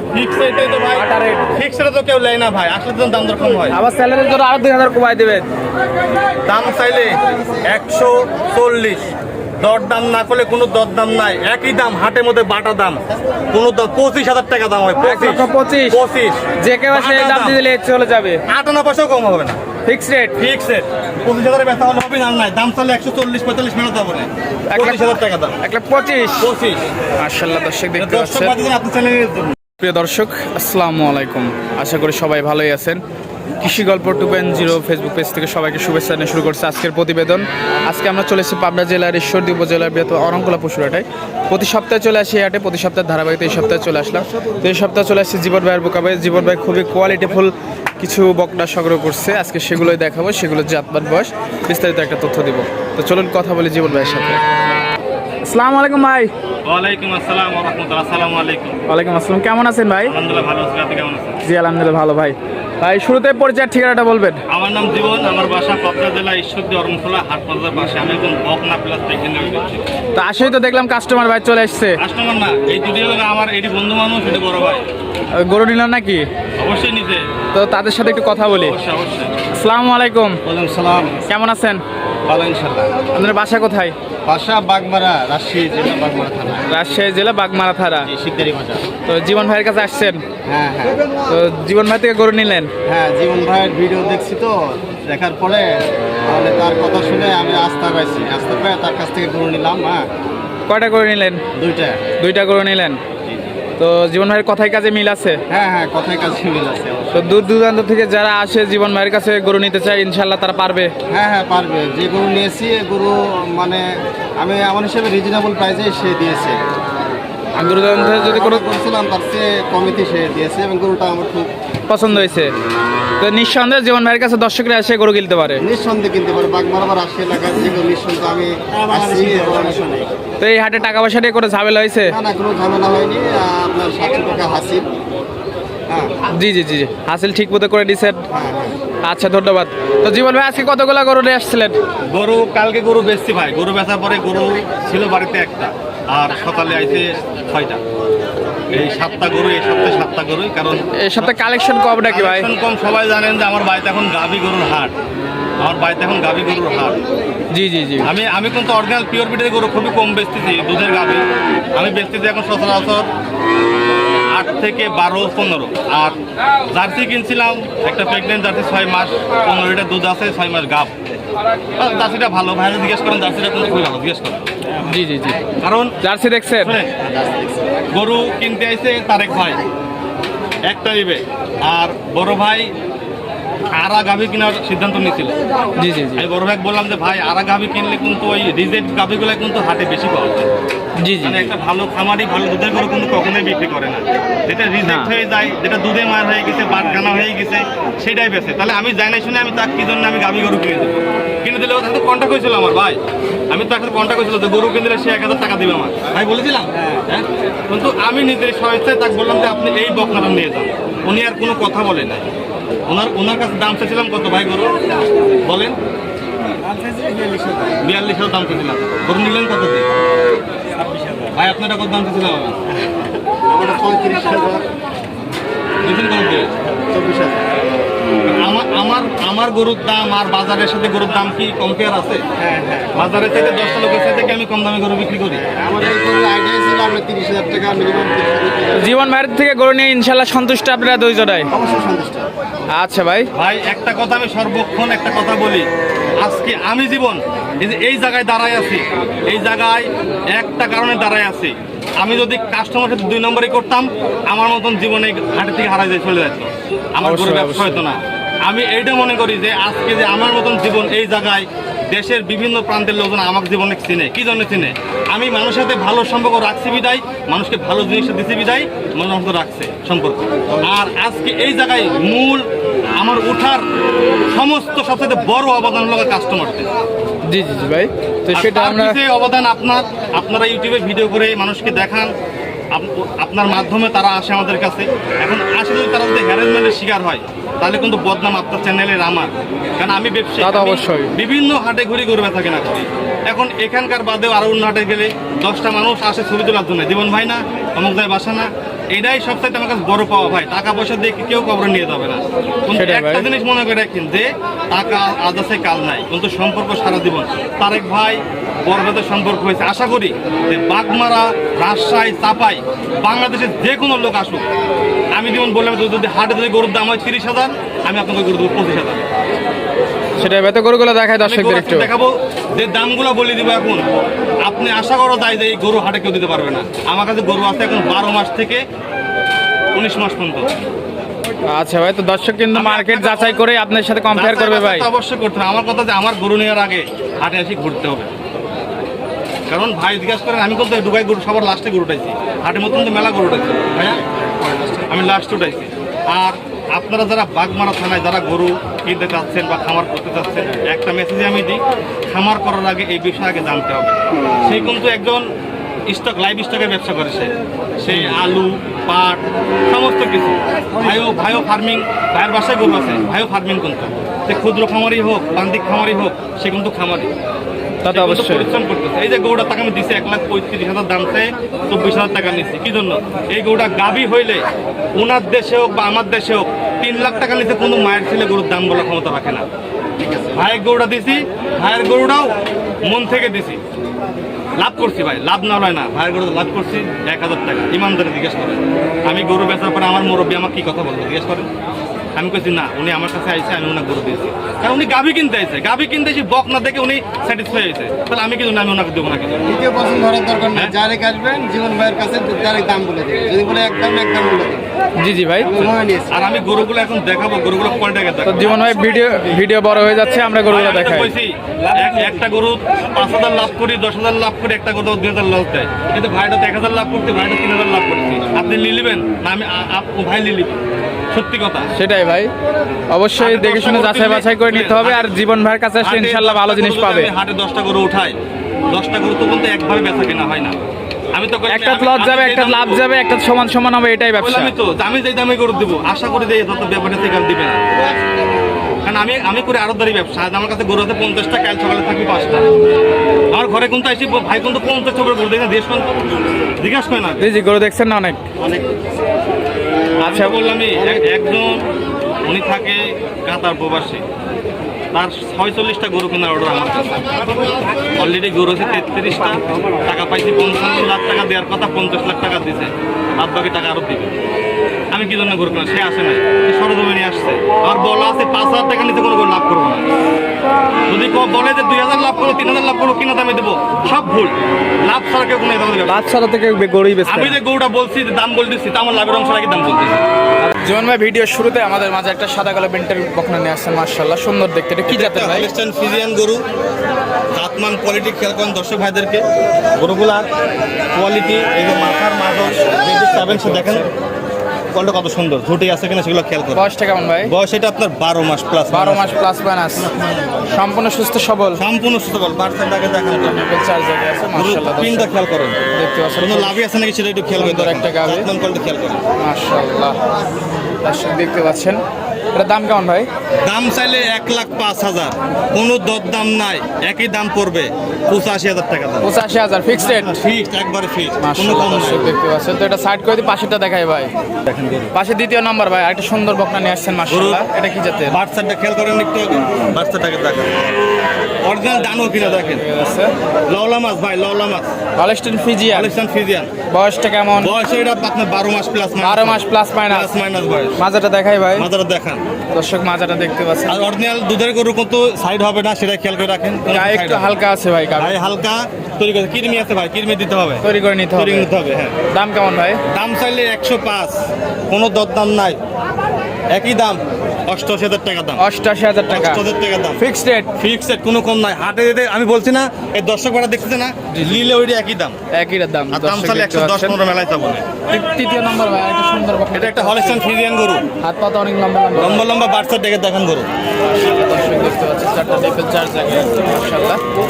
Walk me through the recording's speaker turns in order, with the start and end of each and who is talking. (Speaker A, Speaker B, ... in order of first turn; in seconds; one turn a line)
Speaker A: 0.1-3.8
Speaker B: 1.0-1.5
Speaker B: 3.7-5.5
Speaker A: 6.5-7.2
Speaker A: 7.7-17.6
Speaker B: 15.0-16.0
Speaker B: 16.6-18.4
Speaker A: 18.5-19.6
Speaker B: 19.9-20.4
Speaker A: 20.4-25.6
Speaker B: 24.7-25.0
Speaker B: 25.6-26.5
Speaker A: 26.4-26.9
Speaker B: 27.2-28.5
Speaker A: 28.0-29.6
Speaker B: 29.8-33.0
Speaker B: 33.6-54.4
Speaker B: 55.5-56.3
Speaker A: 56.7-58.8
Speaker B: 58.9-60.1
Speaker A: 60.1-61.4
Speaker B: 61.5-64.4
Speaker A: 64.5-69.8
Speaker B: 70.2-72.0
Speaker A: 72.0-74.8
Speaker B: 75.4-76.3
Speaker A: 76.6-77.2
Speaker B: 77.5-78.8
Speaker A: 78.6-79.3
Speaker B: 79.6-80.4
Speaker C: 80.5-81.1
Speaker A: 80.7-81.0
Speaker B: 81.3-81.8
Speaker A: 82.2-82.9
Speaker B: 83.2-84.0
Speaker C: 84.2-86.7
Speaker B: 86.7-88.1
Speaker C: 88.1-88.8
Speaker B: 89.1-90.2
Speaker C: 90.5-91.0
Speaker B: 91.3-92.7
Speaker C: 92.9-100.1
Speaker B: 100.7-101.4
Speaker C: 101.6-102.0
Speaker B: 102.2-103.0
Speaker C: 103.3-103.5
Speaker B: 103.8-105.4
Speaker C: 105.5-107.3
Speaker B: 107.1-110.9
Speaker C: 111.1-113.9
Speaker C: 114.4-116.6
Speaker B: 117.6-118.7
Speaker C: 118.2-121.5
Speaker B: 121.9-122.5
Speaker B: 123.2-125.6
Speaker C: 125.6-130.1
Speaker A: 128.8-129.8
Speaker B: 130.4-132.2
Speaker C: 132.1-134.9
Speaker C: 135.9-136.1
Speaker B: 136.3-138.2
Speaker C: 138.3-138.8
Speaker B: 139.0-141.8
Speaker A: 142.1-147.8
Speaker A: 148.7-151.4
Speaker B: 151.0-152.5
Speaker A: 152.1-154.9
Speaker A: 155.6-157.0
Speaker B: 157.5-158.1
Speaker A: 158.0-163.1
Speaker A: 164.3-166.2
Speaker A: 166.7-170.9
Speaker A: 171.8-174.5
Speaker B: 174.8-175.4
Speaker A: 175.6-176.0
Speaker B: 176.0-176.8
Speaker A: 176.6-176.9
Speaker C: 177.1-177.7
Speaker A: 177.9-179.6
Speaker A: 180.7-182.7
Speaker A: 183.7-185.4
Speaker B: 185.8-186.3
Speaker A: 186.2-190.5
Speaker B: 191.0-191.5
Speaker A: 191.2-203.0
Speaker B: 194.8-195.1
Speaker A: 203.5-212.3
Speaker A: 212.9-214.7
Speaker A: 215.4-215.8
Speaker C: 216.6-217.8
Speaker A: 217.8-219.9
Speaker C: 220.8-221.1
Speaker A: 221.3-222.6
Speaker C: 222.8-224.7
Speaker A: 225.8-226.5
Speaker C: 226.9-227.5
Speaker A: 228.2-232.2
Speaker C: 232.4-233.0
Speaker A: 232.9-235.4
Speaker C: 235.4-238.9
Speaker B: 238.8-241.5
Speaker C: 241.5-242.3
Speaker B: 242.7-243.3
Speaker A: 243.3-245.7
Speaker A: 246.2-272.5
Speaker B: 257.0-257.8
Speaker A: 273.0-273.7
Speaker A: 274.3-276.7
Speaker B: 277.3-279.0
Speaker A: 278.3-282.1
Speaker A: 282.7-314.4
Speaker B: 290.4-291.1
Speaker B: 302.7-303.3
Speaker A: 315.1-319.1
Speaker B: 320.2-321.9
Speaker A: 321.2-323.9
Speaker A: 324.4-328.6
Speaker A: 329.7-330.5
Speaker B: 331.5-334.9
Speaker A: 332.5-333.4
Speaker A: 334.1-338.1
Speaker A: 339.5-344.0
Speaker C: 344.1-344.9
Speaker A: 344.9-355.3
Speaker A: 355.9-367.1
Speaker B: 357.9-358.1
Speaker B: 367.8-368.5
Speaker A: 367.8-379.4
Speaker C: 380.0-380.4
Speaker A: 380.3-382.3
Speaker A: 382.9-383.6
Speaker A: 384.6-391.5
Speaker A: 392.2-399.5
Speaker C: 399.5-404.7
Speaker B: 405.0-405.5
Speaker C: 405.4-406.2
Speaker A: 405.5-408.8
Speaker B: 408.2-411.1
Speaker A: 410.4-420.6
Speaker A: 421.1-421.7
Speaker B: 421.8-422.3
Speaker B: 422.9-427.1
Speaker A: 423.2-425.2
Speaker A: 425.8-428.1
Speaker A: 428.7-430.6
Speaker A: 431.1-432.8
Speaker B: 431.5-434.5
Speaker A: 434.2-437.8
Speaker A: 438.8-442.5
Speaker A: 443.3-445.9
Speaker A: 446.6-447.3
Speaker B: 447.2-448.2
Speaker C: 448.4-448.6
Speaker A: 450.0-451.6
Speaker B: 450.1-450.4
Speaker A: 452.2-454.0
Speaker A: 454.9-464.2
Speaker A: 464.9-469.9
Speaker A: 470.9-476.0
Speaker B: 475.9-477.4
Speaker A: 477.1-480.0
Speaker B: 480.4-485.5
Speaker A: 484.9-486.4
Speaker A: 487.4-489.2
Speaker A: 489.8-490.3
Speaker A: 490.9-493.9
Speaker B: 493.0-493.9
Speaker A: 494.7-496.7
Speaker B: 496.6-497.3
Speaker A: 497.2-500.6
Speaker B: 498.7-499.9
Speaker B: 500.5-501.6
Speaker A: 501.6-503.4
Speaker B: 503.2-505.1
Speaker A: 504.4-505.6
Speaker B: 505.7-506.6
Speaker A: 506.2-509.0
Speaker B: 507.4-508.3
Speaker B: 509.2-510.0
Speaker B: 510.8-511.8
Speaker B: 512.3-513.1
Speaker A: 513.4-519.1
Speaker B: 519.0-520.1
Speaker A: 519.8-522.1
Speaker B: 521.2-524.1
Speaker A: 524.5-524.9
Speaker B: 524.9-528.2
Speaker A: 527.1-527.5
Speaker A: 528.1-530.5
Speaker A: 531.4-532.6
Speaker B: 531.7-533.1
Speaker A: 533.5-534.8
Speaker B: 535.0-535.9
Speaker A: 535.7-536.5
Speaker B: 536.7-537.5
Speaker A: 537.4-540.8
Speaker B: 539.0-540.1
Speaker B: 540.8-541.7
Speaker A: 541.5-542.2
Speaker B: 542.5-543.9
Speaker A: 543.7-547.3
Speaker B: 546.7-548.2
Speaker A: 548.0-550.6
Speaker B: 550.6-551.5
Speaker A: 551.2-552.0
Speaker B: 552.1-552.8
Speaker A: 552.9-555.6
Speaker A: 556.5-558.4
Speaker B: 558.4-559.4
Speaker A: 559.1-560.0
Speaker B: 560.0-560.5
Speaker A: 560.6-565.2
Speaker B: 564.1-564.5
Speaker B: 565.3-567.0
Speaker A: 565.9-567.7
Speaker B: 567.9-570.2
Speaker A: 569.5-570.8
Speaker B: 571.0-572.3
Speaker A: 572.0-573.5
Speaker B: 573.8-577.0